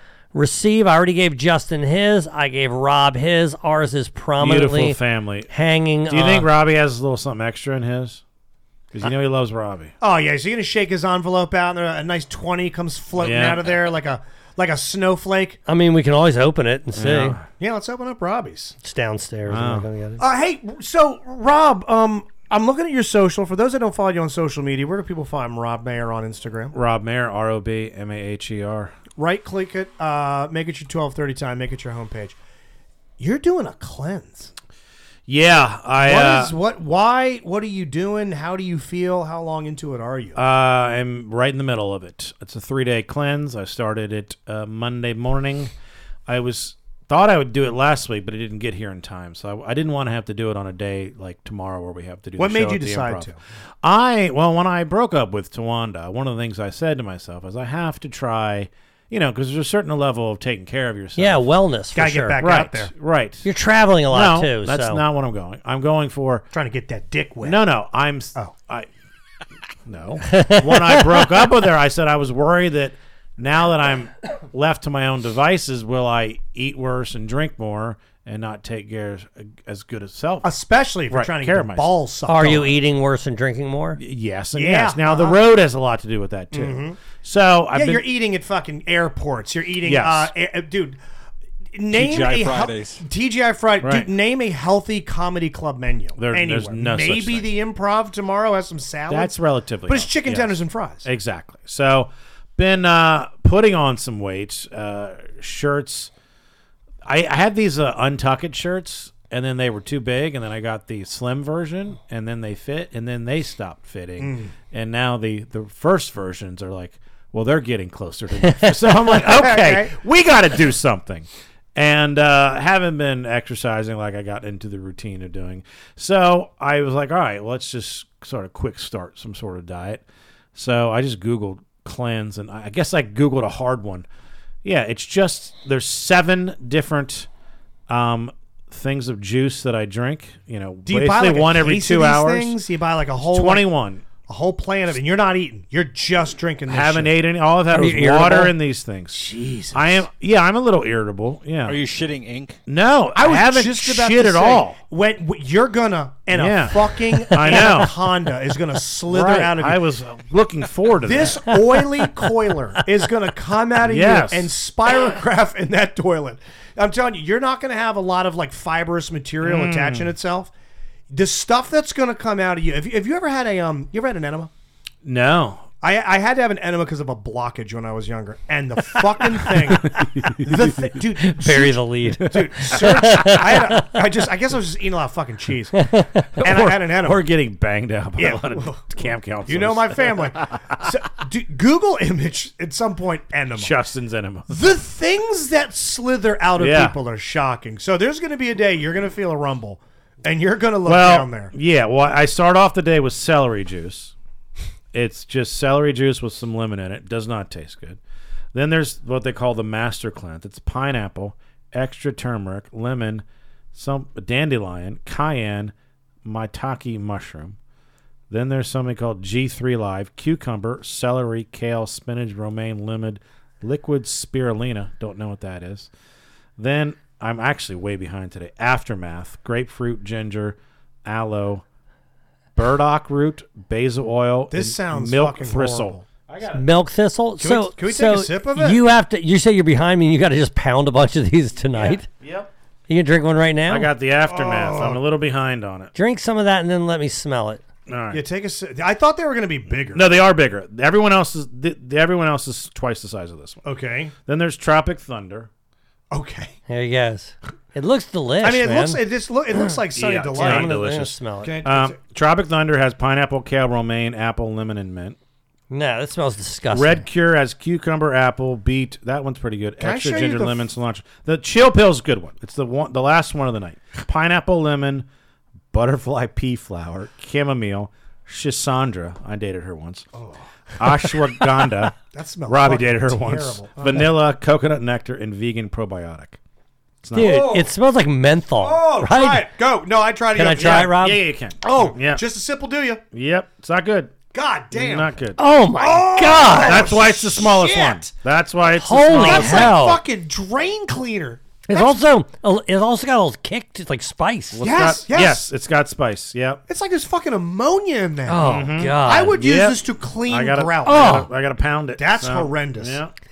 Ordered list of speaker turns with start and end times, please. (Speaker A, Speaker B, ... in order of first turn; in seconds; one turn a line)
Speaker A: 0.3-5.0
Speaker B: 4.4-5.5
Speaker A: 5.5-6.5
Speaker B: 6.1-8.2
Speaker B: 8.9-9.9
Speaker C: 10.0-15.6
Speaker B: 13.2-13.6
Speaker A: 15.7-17.4
Speaker B: 16.9-17.4
Speaker C: 17.6-18.7
Speaker A: 18.8-20.2
Speaker B: 19.5-19.9
Speaker C: 20.2-26.8
Speaker B: 26.7-28.9
Speaker C: 29.1-32.4
Speaker C: 33.2-34.5
Speaker B: 35.3-36.5
Speaker C: 36.0-40.4
Speaker B: 40.4-45.7
Speaker B: 46.3-53.3
Speaker C: 52.4-53.4
Speaker B: 53.8-61.5
Speaker A: 61.2-62.4
Speaker C: 61.9-62.9
Speaker B: 62.4-63.5
Speaker A: 63.4-65.0
Speaker B: 64.1-66.5
Speaker C: 66.5-67.6
Speaker B: 67.4-68.9
Speaker B: 69.8-80.5
Speaker A: 70.3-71.0
Speaker C: 80.4-82.7
Speaker B: 81.1-81.9
Speaker A: 82.3-84.0
Speaker B: 84.0-88.0
Speaker C: 84.5-85.4
Speaker C: 86.5-87.0
Speaker C: 87.7-91.0
Speaker B: 89.8-90.3
Speaker C: 91.7-99.3
Speaker D: 91.9-93.0
Speaker B: 93.8-94.1
Speaker B: 96.2-97.5
Speaker B: 99.1-106.1
Speaker C: 99.9-101.1
Speaker B: 107.0-130.0
Speaker C: 114.2-114.5
Speaker C: 119.0-119.9
Speaker B: 130.5-134.1
Speaker B: 134.6-137.3
Speaker B: 137.9-142.6
Speaker C: 140.8-143.7
Speaker B: 143.3-144.0
Speaker C: 144.2-147.1
Speaker B: 146.7-151.8
Speaker A: 147.7-148.5
Speaker C: 149.1-150.0
Speaker D: 151.6-152.6
Speaker B: 152.7-154.8
Speaker C: 153.1-159.8
Speaker B: 156.3-157.9
Speaker B: 159.1-161.4
Speaker C: 161.0-170.5
Speaker B: 163.8-164.5
Speaker B: 169.4-170.1
Speaker C: 171.1-174.5
Speaker B: 175.0-175.7
Speaker C: 175.8-185.8
Speaker B: 179.8-180.9
Speaker A: 181.2-183.9
Speaker A: 185.7-186.3
Speaker C: 186.4-187.2
Speaker B: 186.4-190.8
Speaker C: 188.2-193.7
Speaker B: 193.6-194.7
Speaker C: 194.5-201.5
Speaker B: 196.6-196.9
Speaker B: 200.8-204.1
Speaker B: 204.9-208.0
Speaker B: 208.5-215.7
Speaker B: 216.2-217.6
Speaker B: 218.3-225.9
Speaker B: 226.6-231.6
Speaker B: 232.6-236.6
Speaker C: 234.5-236.0
Speaker A: 236.5-242.1
Speaker C: 237.4-238.8
Speaker B: 241.7-242.5
Speaker A: 242.9-243.9
Speaker B: 243.7-245.9
Speaker C: 244.2-245.0
Speaker A: 245.9-247.6
Speaker B: 247.9-248.2
Speaker C: 248.1-250.1
Speaker B: 249.9-253.6
Speaker C: 253.6-254.1
Speaker B: 254.2-255.5
Speaker C: 256.1-256.6
Speaker A: 256.7-259.0
Speaker C: 258.4-260.7
Speaker B: 259.9-265.2
Speaker A: 260.3-261.6
Speaker C: 261.4-262.0
Speaker A: 265.7-267.0
Speaker B: 266.7-275.1
Speaker C: 269.8-270.6
Speaker B: 275.7-280.1
Speaker C: 280.1-280.4
Speaker B: 280.8-286.4
Speaker C: 281.9-284.1
Speaker B: 287.0-287.4
Speaker A: 287.1-289.5
Speaker C: 287.1-287.7
Speaker C: 288.6-291.0
Speaker A: 290.3-291.2
Speaker B: 290.6-292.2
Speaker C: 291.6-293.0
Speaker B: 293.1-294.2
Speaker C: 294.3-295.2
Speaker B: 294.7-295.4
Speaker A: 295.4-296.9
Speaker C: 295.7-298.1
Speaker B: 296.6-299.8
Speaker A: 298.8-300.0
Speaker C: 299.1-302.0
Speaker A: 301.7-304.6
Speaker B: 304.5-306.6
Speaker C: 304.6-305.4
Speaker C: 306.7-311.3
Speaker A: 308.3-309.3
Speaker B: 308.4-313.1
Speaker A: 310.8-311.3
Speaker C: 312.0-313.0